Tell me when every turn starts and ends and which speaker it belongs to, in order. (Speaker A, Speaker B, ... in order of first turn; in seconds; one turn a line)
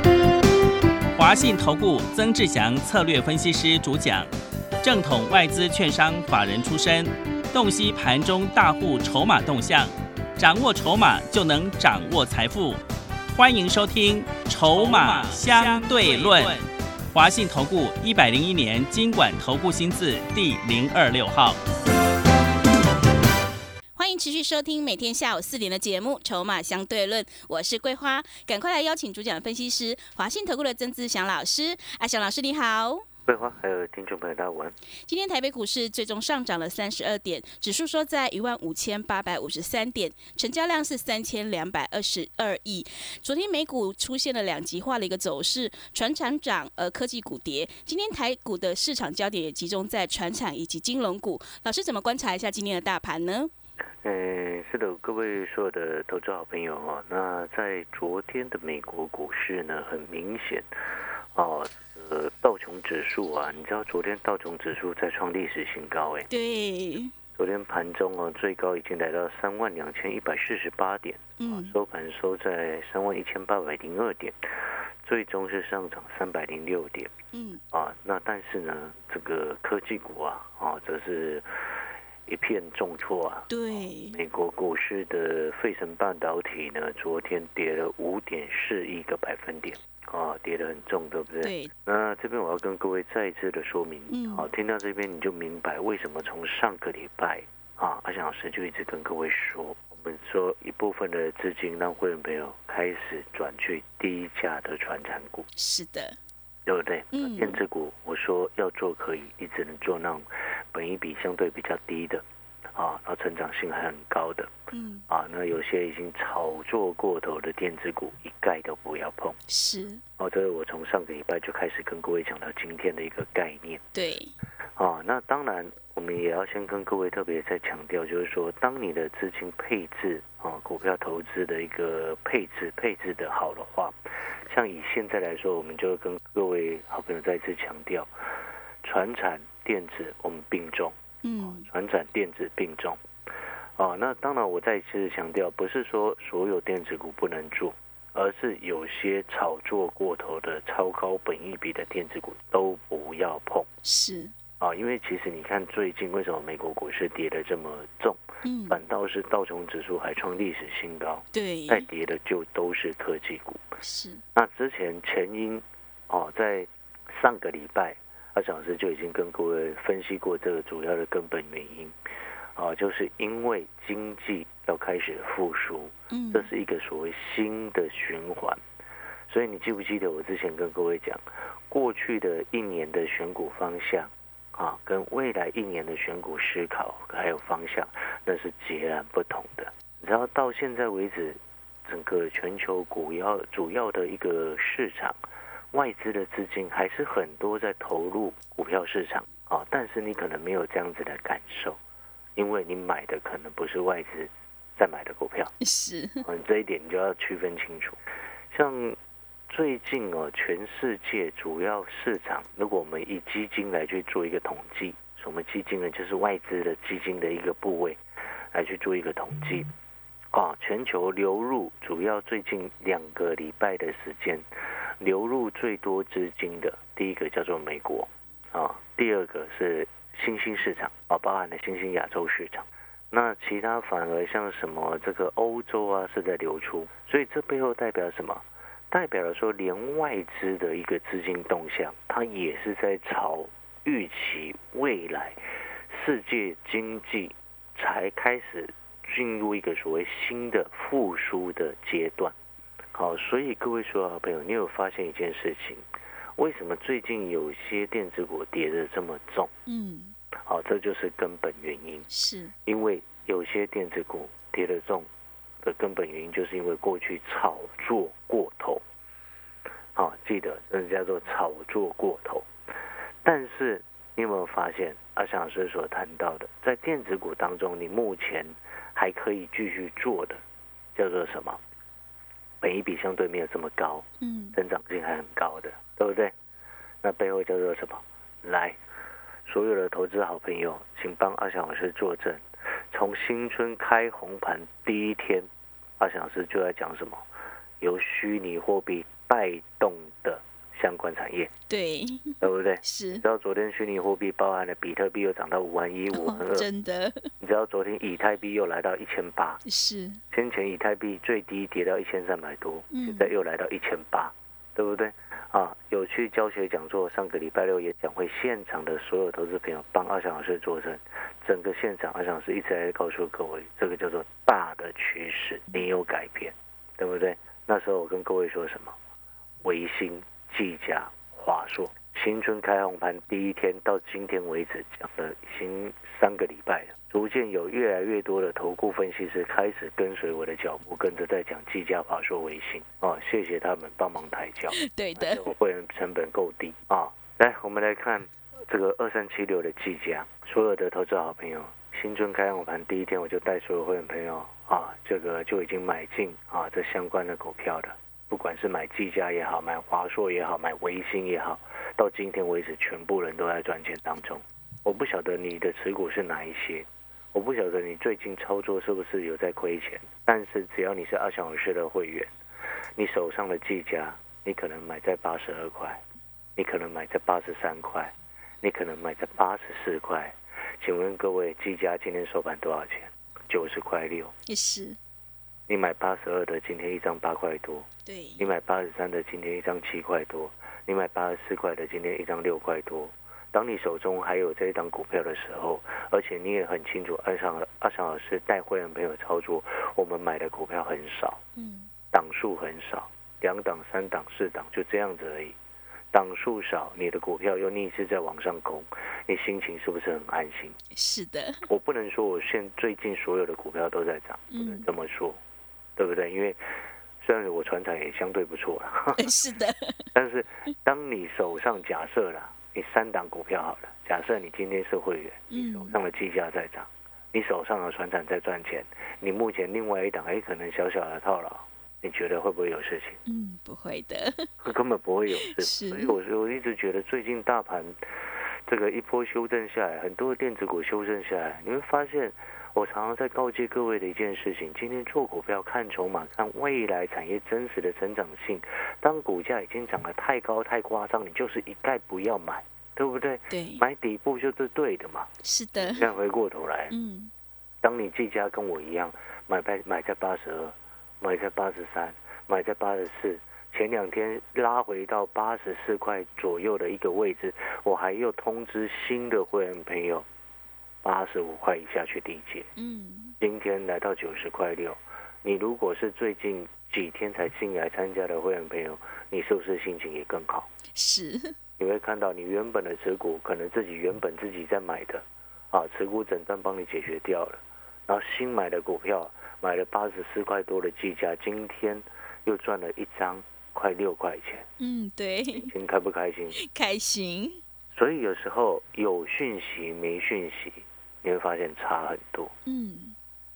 Speaker A: 1.1-4.3
Speaker A: 4.8-12.8
Speaker A: 13.3-21.6
Speaker B: 14.8-16.6
Speaker B: 23.9-33.0
Speaker C: 33.2-34.8
Speaker B: 35.1-53.5
Speaker C: 54.0-60.7
Speaker C: 61.3-66.3
Speaker B: 66.3-67.1
Speaker C: 67.4-74.4
Speaker B: 71.4-71.8
Speaker C: 75.0-77.1
Speaker B: 77.3-77.6
Speaker C: 77.7-81.5
Speaker C: 82.3-105.5
Speaker B: 83.5-84.2
Speaker B: 91.4-91.7
Speaker B: 94.1-94.5
Speaker B: 105.5-106.2
Speaker C: 106.7-114.5
Speaker B: 107.1-107.6
Speaker B: 114.7-115.0
Speaker C: 115.1-119.4
Speaker B: 119.5-120.0
Speaker C: 120.2-123.8
Speaker B: 123.9-124.3
Speaker C: 124.8-138.1
Speaker C: 138.8-143.0
Speaker B: 141.2-141.7
Speaker C: 143.8-153.7
Speaker B: 153.8-154.3
Speaker C: 154.6-163.6
Speaker B: 158.4-158.8
Speaker B: 161.3-161.9
Speaker B: 163.8-164.2
Speaker C: 164.3-171.9
Speaker C: 172.6-178.6
Speaker B: 176.1-176.5
Speaker C: 179.3-195.2
Speaker C: 195.7-201.8
Speaker C: 202.3-205.5
Speaker B: 205.6-206.2
Speaker C: 206.2-208.0
Speaker C: 208.5-209.0
Speaker C: 209.5-218.0
Speaker C: 218.5-219.7
Speaker C: 220.3-224.4
Speaker C: 225.0-252.3
Speaker C: 252.9-255.8
Speaker C: 256.4-259.5
Speaker B: 259.7-260.1
Speaker C: 260.4-262.1
Speaker B: 262.1-262.5
Speaker C: 262.6-265.1
Speaker C: 265.6-268.8
Speaker C: 269.9-272.5
Speaker C: 273.2-280.4
Speaker C: 280.9-281.6
Speaker C: 282.6-286.3
Speaker B: 284.2-284.6
Speaker C: 287.0-288.8
Speaker C: 289.4-295.5
Speaker C: 296.0-297.2
Speaker C: 297.8-301.5
Speaker B: 301.7-303.2
Speaker C: 302.4-306.7
Speaker B: 306.1-307.3
Speaker C: 307.4-309.6
Speaker B: 309.6-310.2
Speaker C: 310.3-328.9
Speaker B: 312.9-313.3
Speaker C: 329.6-372.3
Speaker B: 344.7-345.5
Speaker C: 373.0-376.0
Speaker C: 376.6-384.3
Speaker B: 384.4-385.0
Speaker C: 385.7-387.9
Speaker B: 388.1-388.5
Speaker C: 388.4-401.4
Speaker B: 401.6-401.9
Speaker C: 402.1-405.6
Speaker C: 406.1-410.8
Speaker B: 410.9-411.7
Speaker C: 411.7-415.4
Speaker B: 414.5-414.8
Speaker C: 416.0-416.6
Speaker C: 417.2-419.3
Speaker B: 419.2-420.1
Speaker C: 420.1-433.2
Speaker B: 425.5-425.9
Speaker B: 433.2-434.5
Speaker C: 434.6-438.0
Speaker B: 435.4-436.1
Speaker C: 438.7-456.9
Speaker B: 453.5-453.8
Speaker B: 455.4-456.1
Speaker B: 456.9-457.3
Speaker C: 457.8-470.2
Speaker C: 471.0-472.7
Speaker B: 472.8-473.4
Speaker C: 473.4-480.7
Speaker B: 480.9-481.6
Speaker C: 481.8-494.7
Speaker B: 494.8-495.7
Speaker C: 495.5-496.6
Speaker B: 496.5-497.6
Speaker C: 497.9-502.5
Speaker B: 502.6-503.1